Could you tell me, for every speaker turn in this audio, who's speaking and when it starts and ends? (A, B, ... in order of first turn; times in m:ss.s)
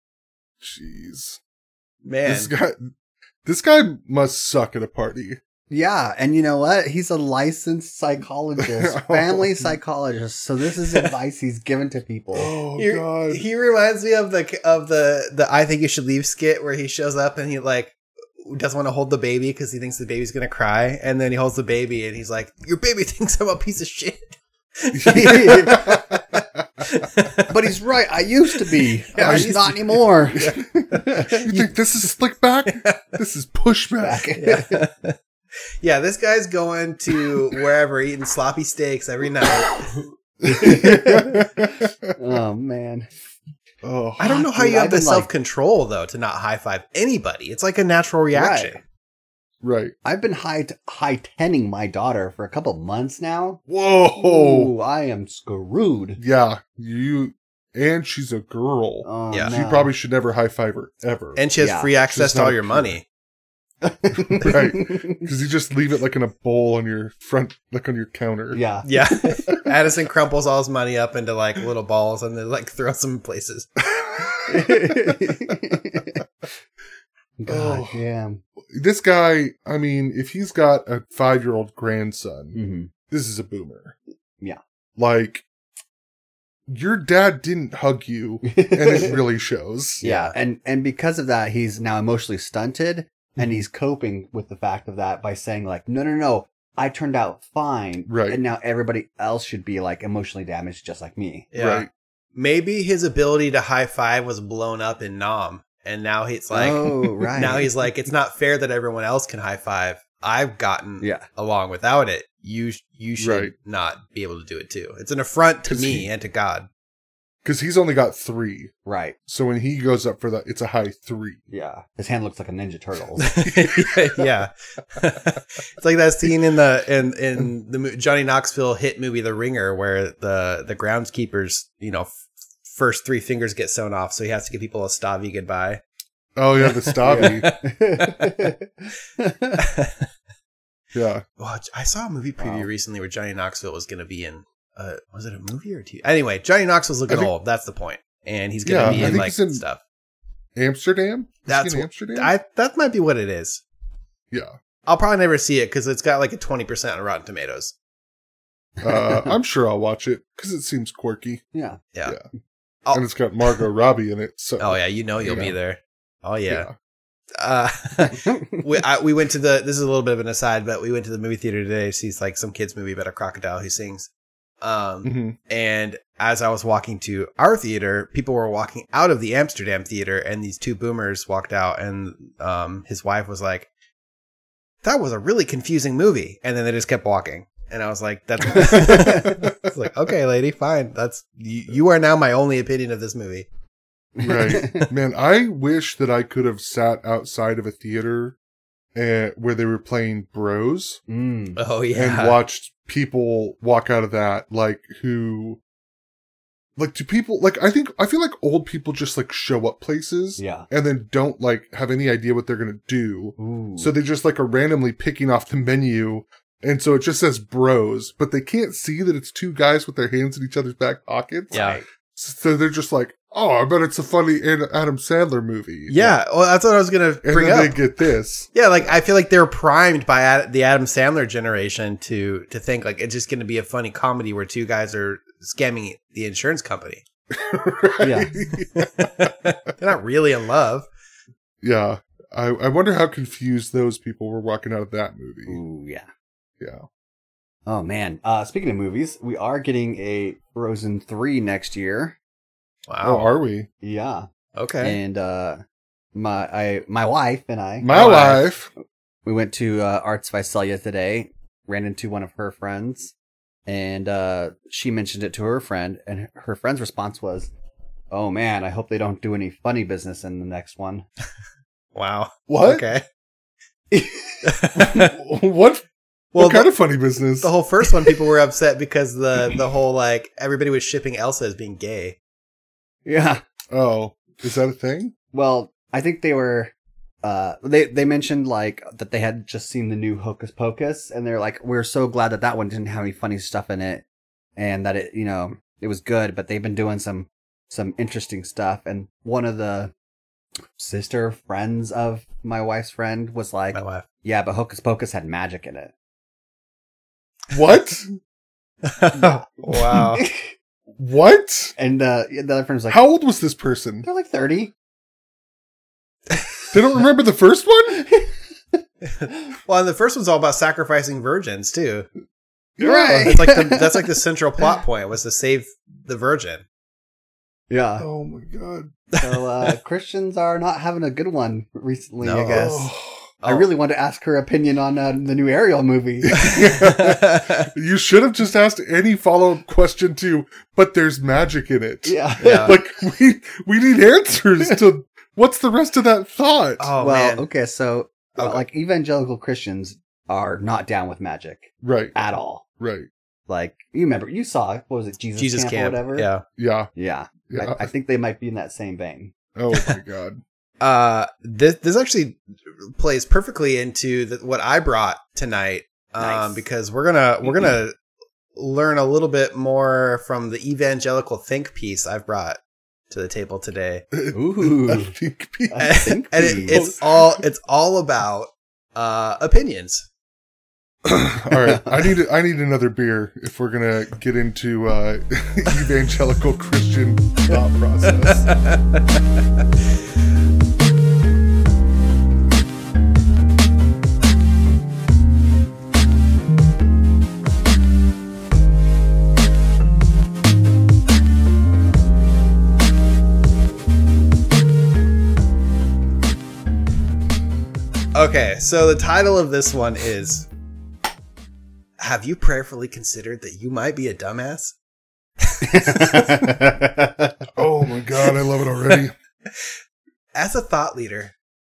0:00.6-0:01.4 A
0:02.0-0:02.5 B
0:02.2-0:02.9 A
0:03.4-0:05.4 A
0:05.7-0:12.6 C
0:08.6-0:09.7 A
0:12.3-0:13.4 A
0:12.8-0:27.6 B
0:24.9-0:27.0 A
0:25.1-0:25.9 C
0:27.5-0:31.7 C
0:28.6-0:30.6 B
0:29.2-0:34.3 A
0:32.7-0:33.0 B
0:34.0-0:34.8 C
0:34.4-0:35.2 B
0:35.8-0:40.0 B
0:39.4-0:39.8 A
0:40.4-0:42.1 A
0:40.4-0:43.1 C
0:43.8-0:44.4 A
0:44.2-0:48.8 B
0:44.3-0:45.3 C
0:48.3-0:48.8 C
0:49.6-0:49.9 A
0:50.0-0:53.6 C
0:53.7-0:54.7 A
0:54.1-0:56.2 C
0:56.2-1:01.4 A
0:59.0-0:59.9 C
1:01.4-1:03.0 B
1:01.6-1:01.9 C
1:02.1-1:03.0 A
1:03.8-1:05.2 C
1:04.4-1:08.6 A
1:08.5-1:08.9 C
1:08.8-1:13.7 B
1:13.9-1:15.6 A
1:14.5-1:16.2 C
1:17.4-1:18.4 C
1:17.5-1:18.0 A
1:18.7-1:22.6 A
1:22.5-1:22.9 C
1:23.1-1:23.9 A
1:25.0-1:25.4 A
1:26.7-1:30.0 A
1:28.4-1:29.2 C
1:30.0-1:30.3 B
1:30.0-1:41.5 C
1:38.1-1:38.4 A
1:41.5-1:56.7 B
1:41.6-1:41.9 A
1:46.5-1:47.7 C
1:53.2-1:53.5 A
1:55.7-1:56.1 A
1:57.4-1:58.7 A
1:58.8-1:59.2 C
1:59.3-2:01.4 A
2:01.5-2:03.3 C
2:03.2-2:12.1 B
2:03.4-2:04.2 A
2:12.6-2:15.8 B
2:16.4-2:17.5 A
2:16.6-2:18.4 B
2:17.0-2:19.6 C
2:19.6-2:20.1 B
2:20.9-2:21.2 A
2:21.4-2:29.8 B
2:22.4-2:22.7 C
2:28.6-2:29.6 A
2:28.8-2:29.2 C
2:30.6-2:32.3 A
2:31.5-2:33.6 B
2:34.8-2:37.7 B
2:38.8-2:41.4 A
2:38.9-2:39.2 C
2:41.5-2:41.8 C
2:42.8-2:43.6 B
2:42.9-2:45.5 A
2:44.6-2:46.7 B
2:46.5-2:46.7 A
2:47.4-2:54.1 B
2:54.6-3:03.7 B
2:55.0-2:55.4 A
3:04.8-3:13.5 B
3:08.6-3:09.5 A
3:14.2-3:14.9 C
3:14.2-3:18.4 A
3:18.9-3:21.0 A
3:21.1-3:21.6 C
3:21.6-3:22.4 B
3:21.9-3:25.6 A
3:26.8-3:41.6 A
3:30.4-3:30.7 C
3:33.4-3:33.9 C
3:41.5-3:41.8 C
3:41.5-3:41.8 B
3:42.1-3:46.2 A
3:45.9-3:47.8 B
3:47.2-3:48.9 A
3:48.5-3:57.0 B
3:57.3-3:59.3 A
3:58.0-3:58.4 C
3:58.8-4:00.9 B
4:01.6-4:05.6 A
4:05.5-4:06.1 C
4:06.6-4:06.8 A
4:07.6-4:12.2 C
4:12.9-4:13.3 B
4:13.0-4:13.7 A
4:13.8-4:14.2 C
4:14.6-4:15.0 B
4:14.8-4:15.6 C
4:16.1-4:18.1 C
4:17.8-4:18.7 A
4:17.9-4:18.5 B
4:19.2-4:23.1 C
4:23.7-4:27.5 C
4:28.1-4:31.0 C
4:31.9-4:33.0 B
4:32.5-4:32.8 A
4:33.9-4:34.5 C
4:34.4-4:35.1 B
4:34.8-4:35.8 A
4:36.3-4:38.1 A
4:36.3-4:42.2 B
4:43.0-4:43.4 C
4:43.7-4:45.1 A
4:45.3-4:46.7 C
4:47.2-4:54.0 C
4:54.6-4:59.9 C
5:00.7-5:05.9 C
5:03.7-5:04.0 B
5:07.5-5:08.2 A
5:08.8-5:10.2 B
5:09.1-5:10.2 A
5:10.2-5:10.5 C
5:11.0-5:11.8 A
5:11.8-5:13.0 C
5:12.9-5:14.1 A
5:14.0-5:14.7 C
5:16.7-5:18.1 A
5:19.2-5:22.1 B
5:22.8-5:23.4 A
5:22.8-5:24.0 C
5:23.2-5:26.6 B
5:27.7-5:28.1 C
5:28.0-5:29.0 A
5:29.2-5:32.9 C
5:32.2-5:32.8 B
5:32.5-5:33.3 A
5:33.4-5:33.7 B
5:33.4-5:36.5 C
5:36.2-5:46.9 A
5:36.4-5:37.7 B
5:42.0-5:42.8 C
5:42.4-5:42.8 B
5:46.8-5:47.5 B
5:47.0-5:52.6 C
5:48.4-5:48.6 B
5:51.8-5:52.1 A
5:52.8-5:53.1 A
5:53.5-5:56.3 C
5:55.4-5:56.4 B
5:56.6-5:56.9 A
5:56.9-5:59.3 C
5:57.5-5:57.9 A
5:59.6-6:00.4 A
6:00.8-6:07.9 B
6:06.2-6:06.6 C
6:08.6-6:12.6 B
6:13.1-6:14.0 B
6:14.1-6:17.4 A
6:14.3-6:15.1 C
6:15.7-6:16.9 C
6:15.8-6:20.1 B
6:21.0-6:28.5 A
6:21.6-6:22.0 C
6:28.0-6:29.2 B
6:48.1-6:50.5 B
6:52.0-6:54.7 B
6:55.4-6:56.4 B
6:55.6-6:57.4 C
6:57.6-6:59.1 A
7:00.3-7:01.3 B